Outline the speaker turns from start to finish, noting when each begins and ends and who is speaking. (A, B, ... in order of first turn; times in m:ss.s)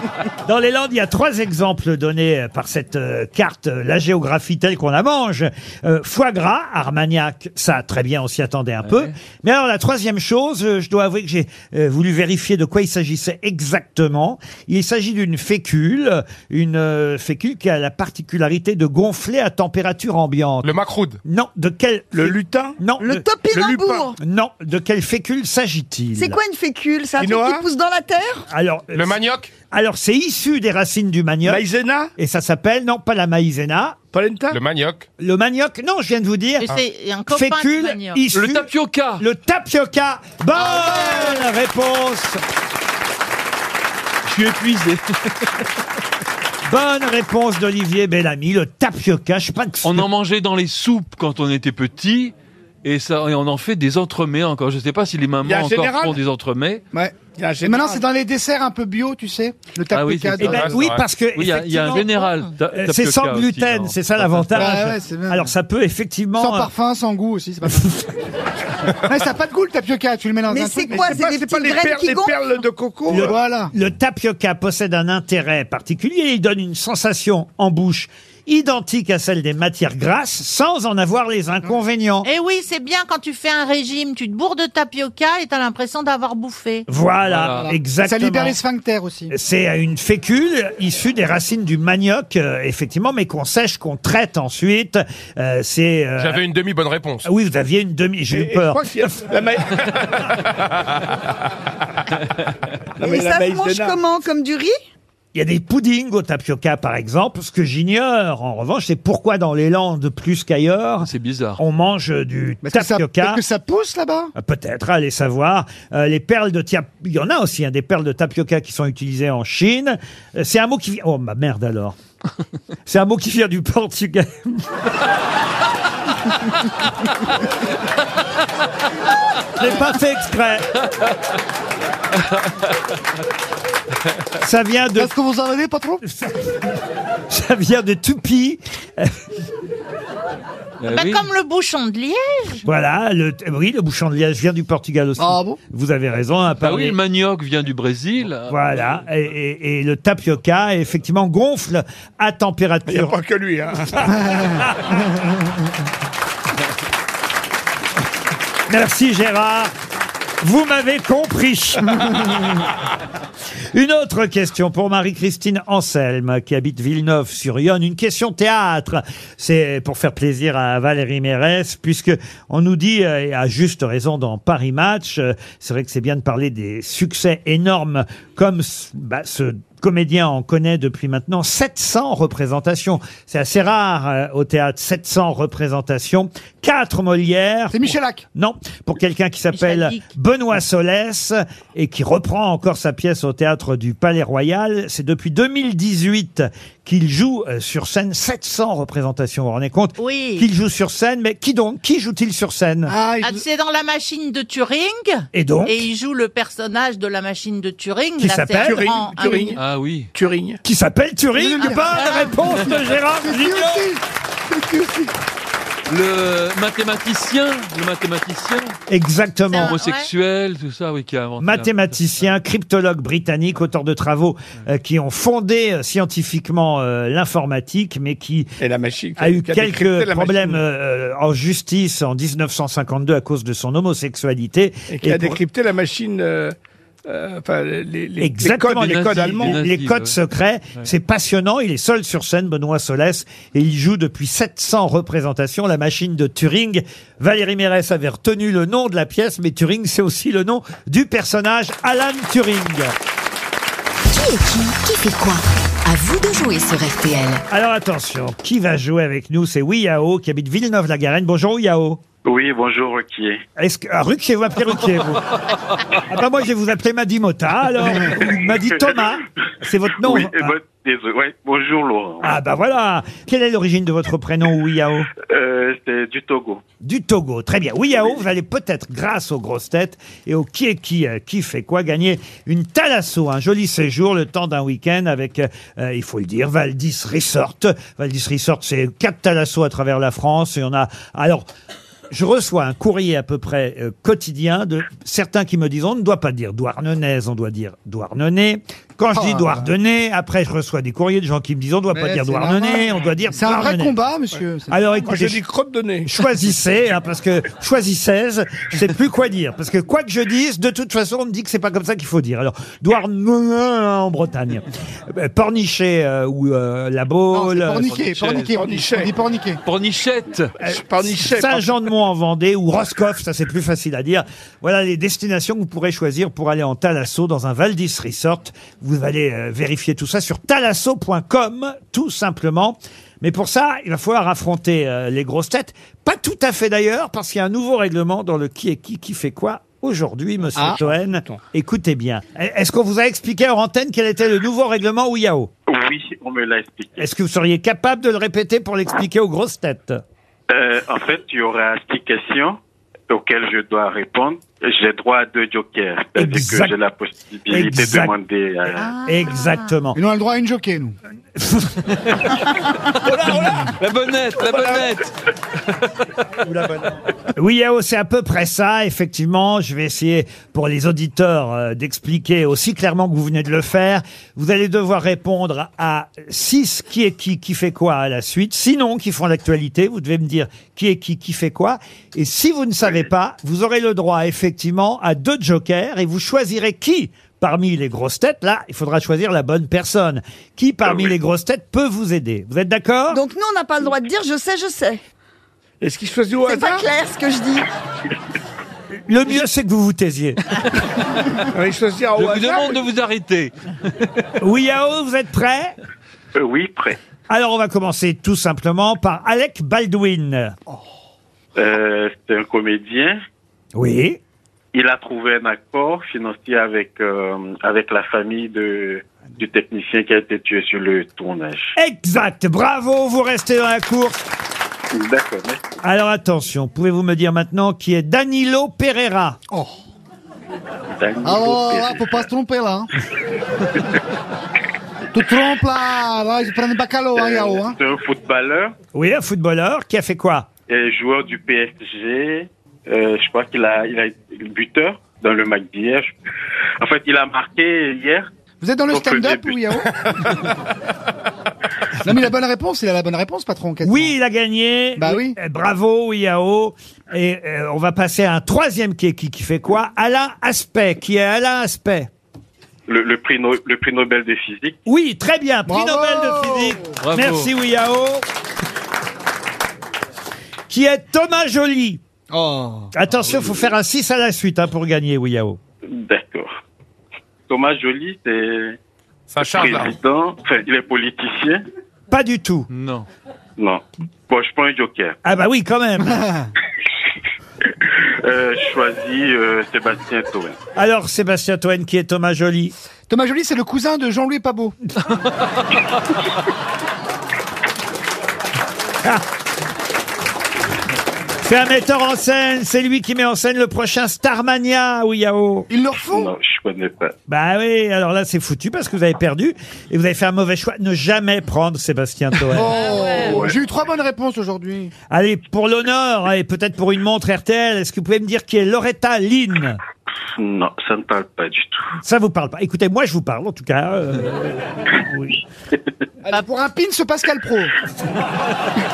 0:00.4-0:20.7 A
0:08.8-0:09.1 B
0:20.6-0:21.2 C
0:21.2-0:23.2 A
0:22.1-0:22.8 D
0:23.0-0:24.2 E
0:24.2-0:26.4 A
0:26.2-0:28.4 E
0:27.2-0:27.6 D
0:28.5-0:29.2 A
0:28.9-0:29.5 C
0:29.7-0:31.6 A
0:31.4-0:32.1 D
0:32.2-0:34.0 A
0:34.1-0:34.6 D
0:34.5-0:35.1 C
0:35.2-0:36.7 A
0:36.6-0:38.2 F
0:37.3-0:42.4 A
0:38.3-0:39.2 B
0:44.2-0:45.5 B
0:46.7-0:50.0 A
0:49.8-0:56.8 B
0:55.4-0:56.2 D
0:56.9-1:00.8 G
0:57.2-0:58.0 D
0:59.9-1:00.6 B
1:00.4-1:01.0 C
1:00.4-1:06.7 A
1:01.4-1:04.6 B
1:04.5-1:05.5 G
1:06.4-1:08.0 G
1:09.0-1:11.2 G
1:10.5-1:12.4 E
1:10.9-1:13.3 D
1:13.1-1:22.3 A
1:13.1-1:13.7 G
1:22.2-1:26.8 F
1:26.9-1:28.6 A
1:27.2-1:27.7 B
1:27.6-1:29.3 G
1:29.3-1:36.4 A
1:36.2-1:37.3 C
1:37.2-1:39.1 A
1:38.3-1:40.4 D
1:43.0-1:44.0 D
1:43.0-1:44.7 E
1:45.3-1:53.4 A
1:51.0-1:51.6 B
1:52.6-1:54.3 G
1:54.4-2:02.0 A
2:02.8-2:04.6 A
2:09.6-2:10.7 A
2:14.4-2:15.1 A
2:15.0-2:16.0 G
2:16.0-2:16.7 A
2:17.3-2:19.1 A
2:20.8-2:21.2 B
2:20.9-2:22.6 F
2:22.6-2:27.0 A
2:25.2-2:25.6 G
2:26.6-2:28.8 B
2:28.5-2:33.1 A
2:32.9-2:34.1 D
2:34.2-2:34.5 G
2:34.6-2:34.9 A
2:38.7-2:39.7 A
2:40.4-2:42.6 A
2:43.7-3:22.9 A
3:07.7-3:08.2 G
3:09.5-3:10.0 F
3:20.0-3:20.4 F
3:22.9-3:23.4 G
3:23.2-3:29.6 F
3:25.3-3:25.8 A
3:28.2-3:28.9 A
3:28.6-3:29.6 D
3:29.6-3:30.1 B
3:30.1-3:30.6 D
3:30.6-3:33.9 A
3:31.3-3:32.1 G
3:31.7-3:32.4 F
3:33.2-3:35.1 G
3:35.9-3:38.8 B
3:38.9-3:39.8 A
3:39.5-3:40.1 F
3:39.6-3:42.0 B
3:41.4-3:48.5 A
3:48.6-3:50.6 D
3:49.2-3:55.4 A
3:54.9-3:56.5 D
3:57.0-3:59.6 D
3:58.2-4:12.9 A
3:58.8-4:00.2 B
4:14.1-4:17.4 H
4:17.5-4:22.0 A
4:22.2-4:23.4 I
4:23.6-4:25.3 A
4:26.0-4:30.5 A
4:30.0-4:32.3 I
4:32.2-4:35.1 A
4:35.2-4:36.6 I
4:36.8-4:51.5 A
4:52.1-5:04.0 A
4:59.1-4:59.7 G
5:01.9-5:04.8 G
5:04.7-5:05.4 A
5:05.0-5:06.1 D
5:06.0-5:17.9 A
5:17.3-5:19.6 G
5:17.9-5:18.5 B
5:18.5-5:19.2 D
5:19.6-5:20.5 B
5:20.6-5:45.5 A
5:20.6-5:21.6 D
5:40.6-5:41.4 D
5:45.7-5:47.1 I
5:47.0-5:50.0 A
5:50.5-5:52.6 I
5:53.1-5:58.9 I
5:56.2-5:56.8 A
5:57.5-5:58.1 A
5:58.8-5:59.6 F
5:59.0-6:00.0 A
5:59.9-6:01.0 G
6:01.4-6:01.8 A
6:03.1-6:03.4 D
6:03.8-6:05.1 B
6:04.4-6:04.9 D
6:07.3-6:33.2 A
6:33.1-6:35.0 E
6:35.8-6:36.8 D
6:36.4-6:37.6 E
6:39.1-6:40.4 A
6:41.5-6:42.9 D
6:42.2-6:44.3 B
6:44.4-6:45.7 A
6:46.3-6:47.0 I
6:47.3-6:50.5 A
6:51.6-6:53.2 I
6:53.7-6:54.2 A
6:54.7-7:01.7 I
7:01.8-7:04.2 A
7:04.9-7:05.6 I
7:05.8-7:09.4 A
7:09.5-7:09.8 G
7:10.9-7:12.2 I
7:11.2-7:12.9 G
7:15.1-7:17.8 G
7:17.1-7:18.7 I
7:18.9-7:20.5 A
7:20.7-7:26.2 I
7:26.8-7:28.3 I
7:28.6-7:30.5 G
7:28.9-7:29.9 I
7:32.0-7:34.1 G
7:33.8-7:42.1 A
7:35.0-7:35.4 G
7:42.9-7:44.8 I
7:44.8-7:48.2 A
7:45.7-7:47.0 G
7:47.0-7:47.5 B
7:50.7-7:52.0 A
7:52.3-7:52.9 G
7:52.9-7:55.6 A
7:55.9-7:56.5 I
7:57.5-7:58.8 I
7:59.3-7:59.9 C
7:59.4-8:01.6 I
8:02.1-8:02.7 A
8:02.7-8:03.1 B
8:03.6-8:05.2 I
8:05.2-8:06.2 A
8:06.0-8:06.5 G
8:08.2-8:10.6 I
8:10.8-8:12.7 A
8:13.1-8:14.8 G
8:21.4-8:25.7 A
8:25.7-8:26.3 G
8:26.1-8:27.1 I
8:27.3-8:32.8 A
8:32.4-8:34.9 G
8:35.1-8:39.8 A
8:40.3-8:42.0 I
8:42.0-8:45.4 A
8:46.2-8:47.7 G